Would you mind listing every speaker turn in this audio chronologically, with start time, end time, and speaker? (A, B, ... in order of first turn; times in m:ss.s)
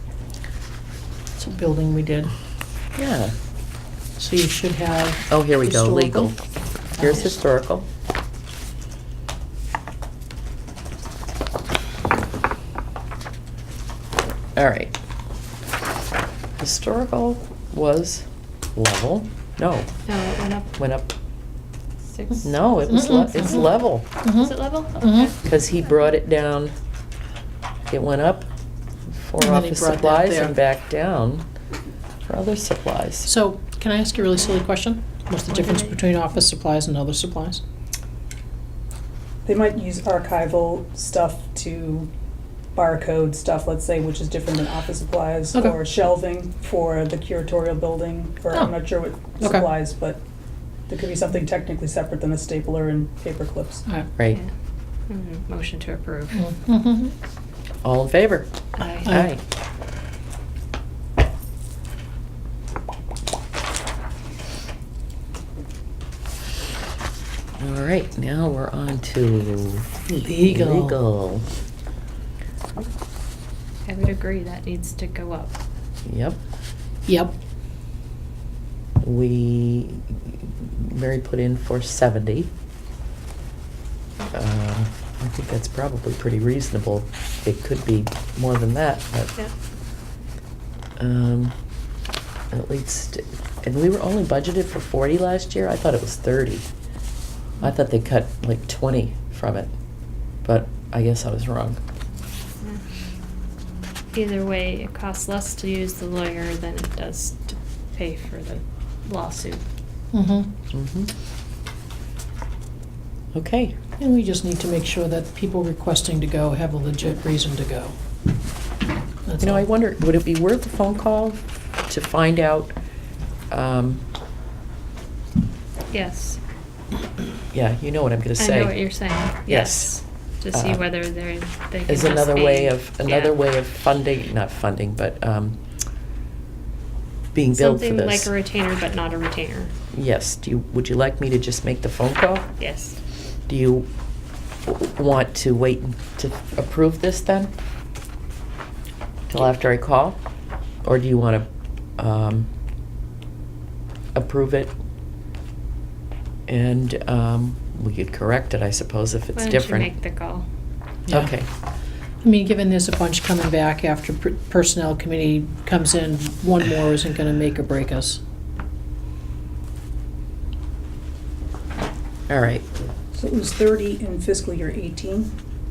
0:01.4-0:02.3 A
0:02.9-0:03.3 B
0:04.2-0:06.4 A
0:05.3-0:06.4 B
0:06.9-0:07.9 B
0:07.0-0:07.3 A
0:14.6-0:14.9 B
0:16.6-0:19.9 B
0:20.1-0:20.7 C
0:20.8-0:21.1 B
0:22.1-0:22.9 C
0:22.4-0:24.0 B
0:22.9-0:25.3 A
0:24.3-0:26.1 C
0:25.4-0:26.7 B
0:27.9-0:28.5 B
0:29.1-0:31.4 B
0:29.4-0:30.5 A
0:32.3-0:33.3 B
0:33.2-0:37.6 A
0:35.5-0:36.1 C
0:39.4-0:42.1 D
0:42.7-0:50.2 D
0:49.4-0:49.7 A
0:50.9-0:53.8 D
0:55.1-0:56.5 C
0:56.3-0:57.1 A
0:57.8-0:58.5 B
0:58.8-0:59.1 C
0:59.0-0:59.3 A
0:59.0-0:59.4 B
1:07.6-1:11.4 B
1:10.1-1:11.0 A
1:13.8-1:15.5 C
1:16.0-1:16.4 B
1:17.1-1:17.3 A
1:19.0-1:22.5 B
1:24.3-1:29.3 B
1:31.0-1:31.5 B
1:32.5-1:36.7 B
1:37.6-1:39.7 B
1:40.4-1:41.8 B
1:44.1-1:49.6 C
1:50.1-1:50.5 A
1:50.7-1:51.1 B
1:53.3-1:53.8 B
1:54.0-1:57.9 A
1:59.2-1:59.6 A
1:59.4-2:02.7 B
2:03.5-2:04.0 B
2:05.9-2:06.4 C
2:07.5-2:08.8 B
2:08.4-2:13.4 C
2:09.5-2:10.0 B
2:10.5-2:10.8 B
2:11.9-2:15.6 B
2:17.3-2:18.3 B
2:17.5-2:19.7 C
2:19.9-2:22.4 B
2:22.6-2:23.0 C
2:23.5-2:23.9 B
2:24.6-2:27.5 B
2:29.3-2:30.2 B
2:30.8-2:31.5 B
2:32.0-2:32.5 B
2:34.1-2:34.8 B
2:36.5-2:39.9 B
2:39.4-2:40.4 C
2:41.1-2:41.5 B
2:42.2-2:48.2 A
2:52.3-2:52.6 B
2:53.1-2:55.3 D